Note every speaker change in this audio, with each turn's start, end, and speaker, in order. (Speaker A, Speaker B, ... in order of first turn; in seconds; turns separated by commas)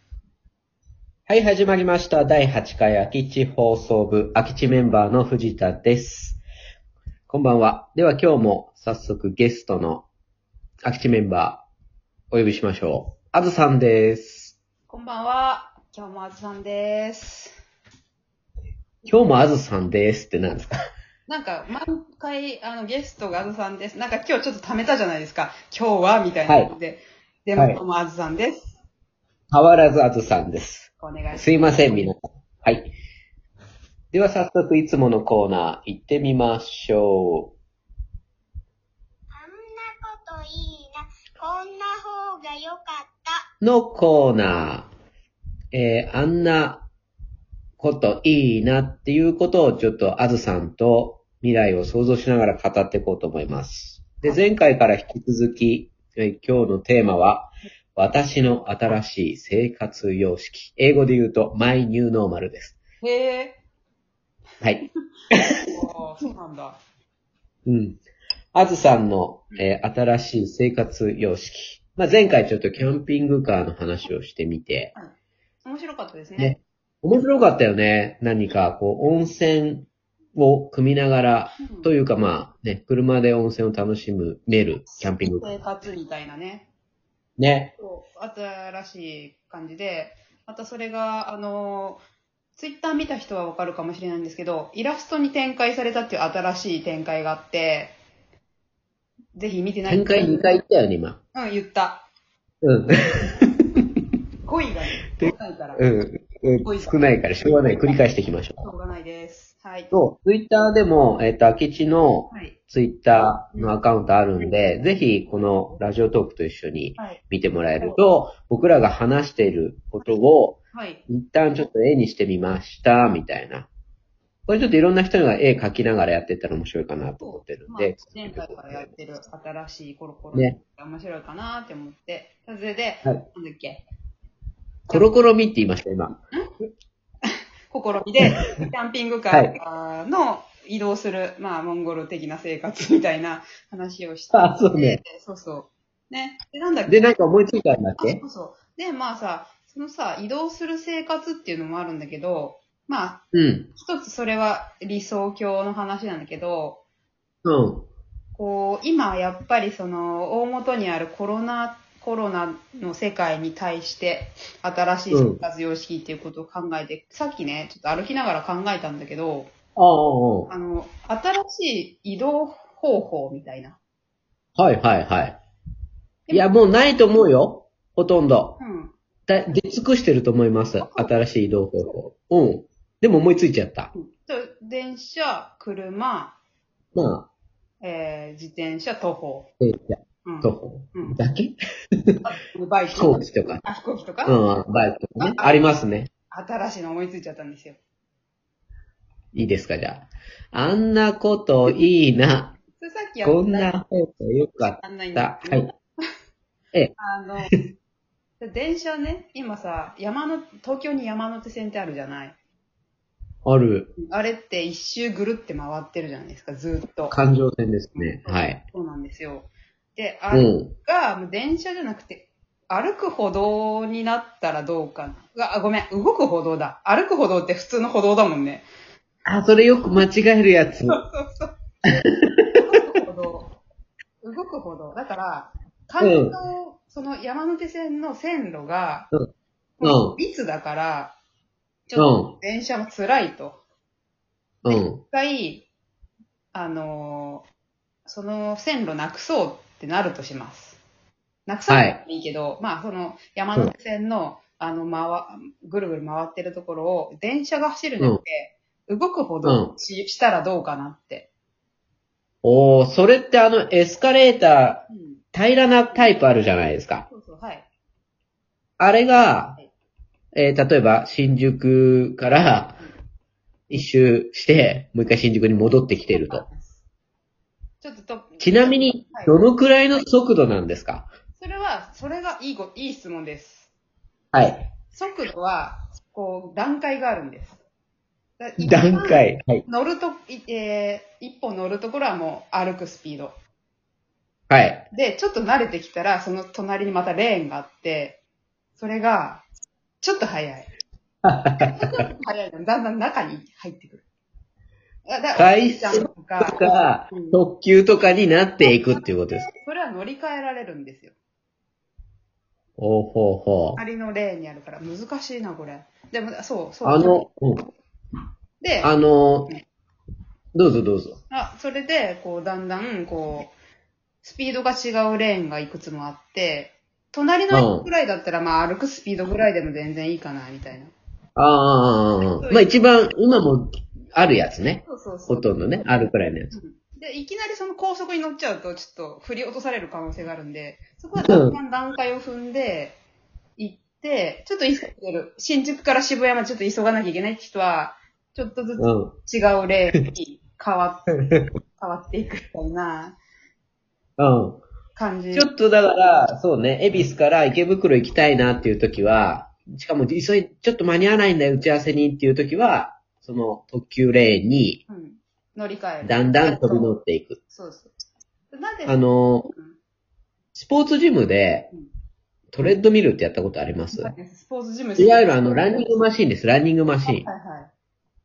Speaker A: 1.3-6.4, Speaker A: 7.3-10.1, Speaker A: 10.8-11.7, Speaker A: 12.3-14.6, Speaker B: 14.9-17.6, Speaker A: 19.1-20.7, Speaker B: 21.3-28.8, Speaker A: 26.5-26.7, Speaker A: 27.6-27.8, Speaker A: 29.5-32.9, Speaker B: 31.0-32.1, Speaker A: 34.1-37.5, Speaker C: 39.4-43.4, Speaker A: 43.6-44.9, Speaker A: 45.7-46.9, Speaker A: 47.8-62.8, Speaker B: 63.0-63.6, Speaker A: 64.6-65.4, Speaker B: 65.7-66.8, Speaker A: 67.7-68.0, Speaker A: 68.5-74.9, Speaker B: 75.6-76.6, Speaker A: 76.4-85.5, Speaker B: 81.6-81.9, Speaker B: 84.9-86.7, Speaker A: 87.4-87.7, Speaker B: 87.8-92.0, Speaker B: 92.6-98.0, Speaker B: 99.3-100.6, Speaker A: 99.9-101.2, Speaker B: 101.3-102.1, Speaker A: 102.6-103.5, Speaker B: 104.4-105.9, Speaker A: 105.2-108.7, Speaker B: 106.6-109.9, Speaker A: 109.9-123.7, Speaker B: 112.3-112.6, Speaker B: 120.7-121.0, Speaker A: 124.5-128.9, Speaker B: 127.2-133.8, Speaker A: 134.9-136.2, Speaker B: 137.2-147.2, Speaker A: 139.3-139.6, Speaker A: 144.3-145.0, Speaker A: 146.9-148.2, Speaker B: 148.0-156.8, Speaker A: 153.3-153.7, Speaker A: 157.4-157.9, Speaker B: 158.3-169.5, Speaker A: 165.1-165.4, Speaker A: 169.8-170.5, Speaker B: 170.5-173.8, Speaker A: 174.6-175.4, Speaker B: 176.3-176.5, Speaker A: 176.3-178.6, Speaker B: 178.6-178.9, Speaker A: 179.3-183.9, Speaker B: 180.8-182.0, Speaker B: 183.9-186.4, Speaker A: 186.9-187.3, Speaker B: 187.8-189.5, Speaker A: 189.6-191.6, Speaker B: 190.2-191.2, Speaker B: 192.2-194.4, Speaker A: 192.9-193.6, Speaker A: 194.2-196.1, Speaker B: 195.2-195.7, Speaker B: 196.3-197.8, Speaker A: 199.3-202.6, Speaker B: 202.8-203.8, Speaker A: 203.2-205.7, Speaker B: 204.7-205.8, Speaker B: 207.0-207.6, Speaker B: 208.4-212.4, Speaker A: 213.5-213.9, Speaker B: 214.0-217.2, Speaker A: 217.1-218.6, Speaker B: 218.0-228.7, Speaker A: 220.3-220.7, Speaker A: 229.2-231.0, Speaker B: 230.9-233.6, Speaker B: 234.2-239.1, Speaker A: 236.0-236.4, Speaker B: 239.8-241.2, Speaker A: 239.8-240.2, Speaker B: 241.9-243.6, Speaker A: 242.0-242.3, Speaker A: 244.6-245.0, Speaker B: 244.7-245.7, Speaker B: 246.5-247.5, Speaker B: 248.1-250.8, Speaker B: 251.5-261.3, Speaker A: 251.7-252.0, Speaker A: 259.4-259.7, Speaker A: 262.4-267.1, Speaker B: 264.9-265.2, Speaker B: 265.9-266.2, Speaker B: 267.1-267.7, Speaker A: 268.8-269.6, Speaker A: 270.4-272.8, Speaker A: 273.7-276.4, Speaker B: 276.1-276.8, Speaker B: 277.8-279.4, Speaker A: 278.4-281.1, Speaker B: 281.4-283.7, Speaker A: 284.3-284.7, Speaker B: 284.9-287.6, Speaker B: 288.4-293.4, Speaker A: 288.6-289.6, Speaker A: 294.5-294.9, Speaker B: 294.9-298.2, Speaker B: 298.8-299.5, Speaker B: 300.0-300.7, Speaker A: 301.2-302.0, Speaker B: 301.6-304.0, Speaker B: 305.1-307.4, Speaker A: 305.4-309.5, Speaker B: 308.6-311.1, Speaker A: 312.8-313.8, Speaker B: 313.8-317.3, Speaker A: 316.8-317.7, Speaker B: 318.6-318.9, Speaker A: 318.8-319.5, Speaker A: 320.5-321.2, Speaker B: 321.3-323.5, Speaker B: 324.2-330.9, Speaker A: 327.5-327.9, Speaker A: 331.4-336.5, Speaker B: 332.4-332.8, Speaker B: 334.8-335.6, Speaker B: 336.5-343.0, Speaker A: 341.2-341.6, Speaker B: 343.6-353.2, Speaker A: 348.8-349.1, Speaker A: 354.2-354.6, Speaker B: 354.9-355.5, Speaker A: 355.3-364.8, Speaker B: 364.9-367.0, Speaker A: 366.0-367.4, Speaker B: 367.5-367.9, Speaker B: 368.5-369.8, Speaker A: 368.9-369.5, Speaker A: 370.5-371.7, Speaker A: 372.5-374.1, Speaker B: 373.9-376.0, Speaker A: 375.0-377.3, Speaker B: 377.0-377.7